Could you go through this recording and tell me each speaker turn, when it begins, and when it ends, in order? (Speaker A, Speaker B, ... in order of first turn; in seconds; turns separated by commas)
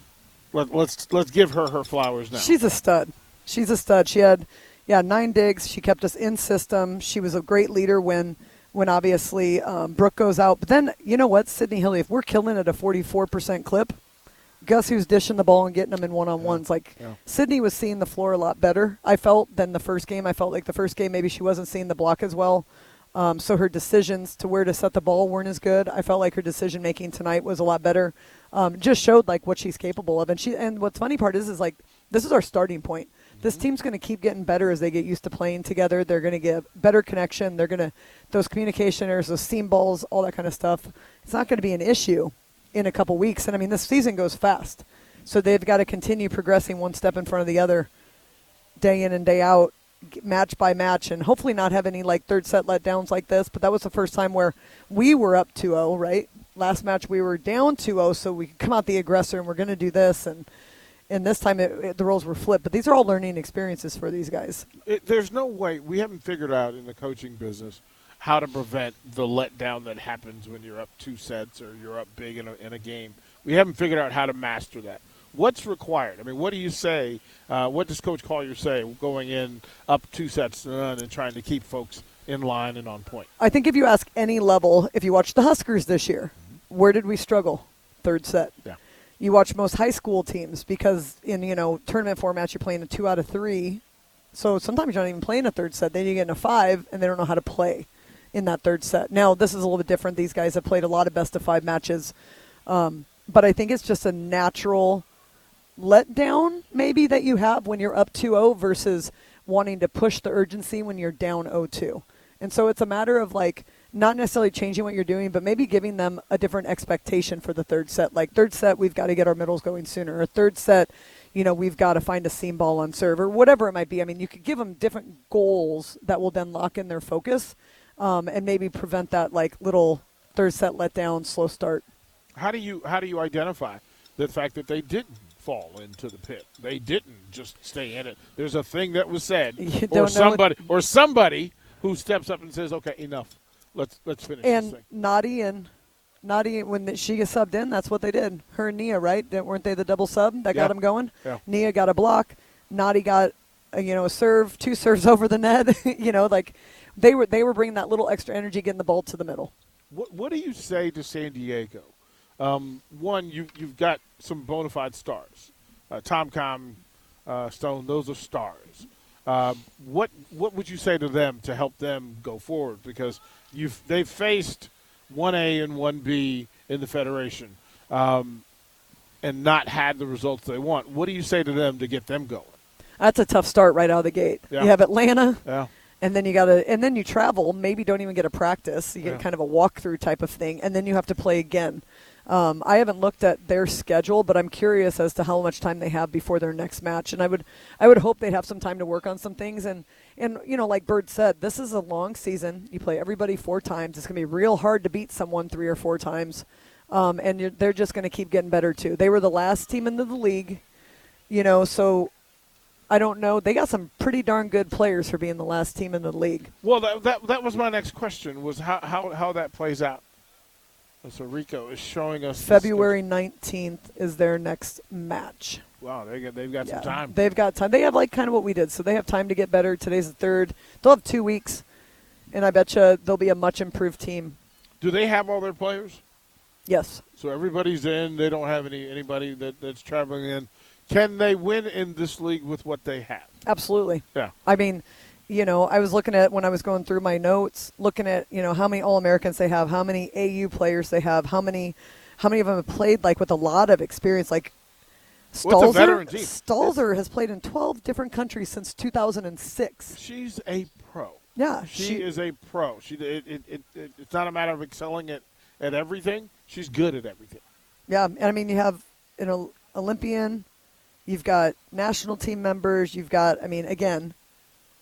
Speaker A: 0.5-2.5, Speaker B: 2.3-14.0, Speaker B: 14.6-47.9, Speaker A: 16.4-17.2, Speaker A: 33.4-33.6, Speaker B: 48.8-60.5, Speaker B: 61.1-64.7, Speaker A: 64.8-83.3, Speaker B: 83.4-88.5, Speaker B: 89.2-93.8, Speaker B: 94.3-102.1, Speaker B: 102.7-105.0, Speaker B: 105.8-131.8, Speaker A: 132.3-144.8, Speaker B: 139.6-140.4, Speaker B: 144.4-145.7, Speaker B: 146.2-159.5, Speaker A: 150.5-151.4, Speaker A: 159.9-178.4, Speaker A: 179.2-182.6, Speaker B: 183.0-185.4, Speaker A: 185.4-185.7, Speaker B: 186.0-210.6, Speaker B: 211.3-212.1, Speaker B: 212.9-216.5, Speaker A: 216.6-220.0, Speaker A: 221.0-222.9, Speaker B: 222.4-225.6, Speaker A: 225.8-227.1, Speaker B: 226.6-231.7, Speaker B: 232.3-234.4, Speaker A: 234.8-236.0, Speaker B: 236.7-237.0, Speaker A: 237.2-243.3, Speaker B: 243.4-254.5, Speaker B: 255.3-260.0, Speaker A: 255.4-256.7, Speaker A: 259.9-267.4, Speaker B: 261.4-262.1, Speaker B: 267.9-270.5, Speaker B: 271.1-274.1